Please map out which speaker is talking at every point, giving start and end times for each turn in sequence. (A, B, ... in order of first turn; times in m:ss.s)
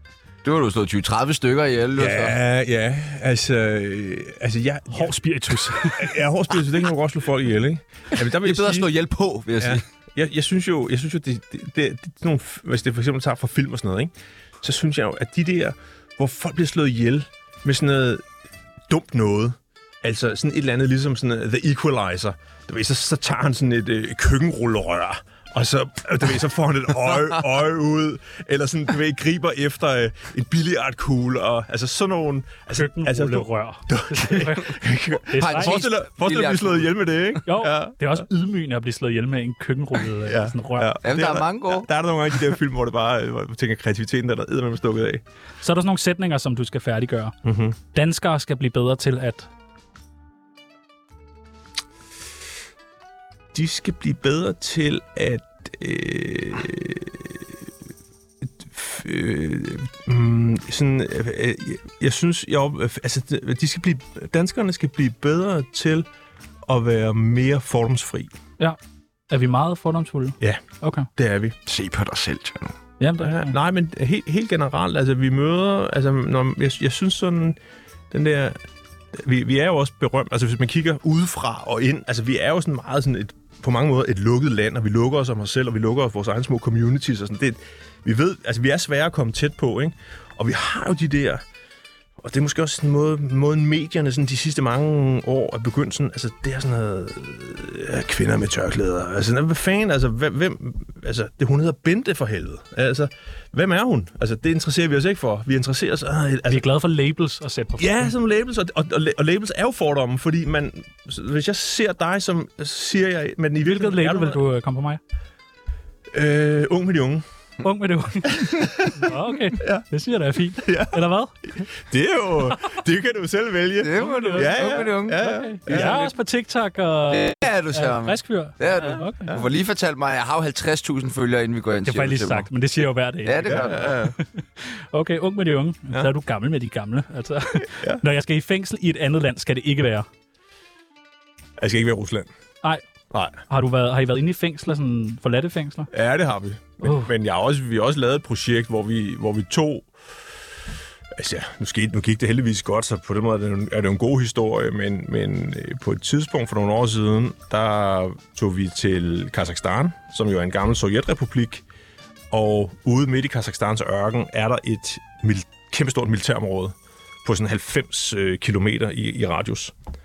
0:00.4-0:02.4 A
0:02.0-0:05.2 B
0:04.9-0:06.2 C
0:05.7-0:08.9 B
0:08.2-0:09.8 A
0:09.6-0:18.2 B
0:18.9-0:38.2 B
0:32.7-0:34.8 C
0:35.3-0:35.8 C
0:35.4-0:36.9 A
0:37.5-0:40.9 C
0:40.2-0:45.2 B
0:41.0-0:41.9 A
0:45.6-0:47.4 C
0:47.4-0:47.8 B
0:47.9-0:49.5 C
0:53.5-0:57.5 B
0:58.7-1:06.1 B
1:06.7-1:08.3 B
1:09.3-1:11.1 C
1:11.2-1:11.6 B
1:11.7-1:12.8 A
1:13.0-1:13.6 C
1:13.2-1:17.6 B
1:18.1-1:18.6 B
1:19.1-1:31.4 B
1:32.2-1:46.6 B
1:46.5-1:48.1 C
1:47.8-1:54.4 B
1:53.6-1:55.0 C
1:56.1-1:57.2 B
1:57.6-2:01.4 C
1:58.3-1:59.1 B
1:59.6-1:59.9 B
2:00.6-2:01.0 B
2:01.7-2:06.1 B
2:03.8-2:06.0 A
2:04.0-2:04.5 C
2:05.2-2:09.3 C
2:07.1-2:12.5 A
2:11.8-2:20.1 C
2:13.2-2:14.1 A
2:13.4-2:14.2 B
2:21.6-2:22.3 B
2:23.1-2:23.4 B
2:23.5-2:25.9 C
2:25.9-2:29.9 B
2:26.8-2:27.1 C
2:31.2-2:41.6 B
2:42.3-2:49.7 B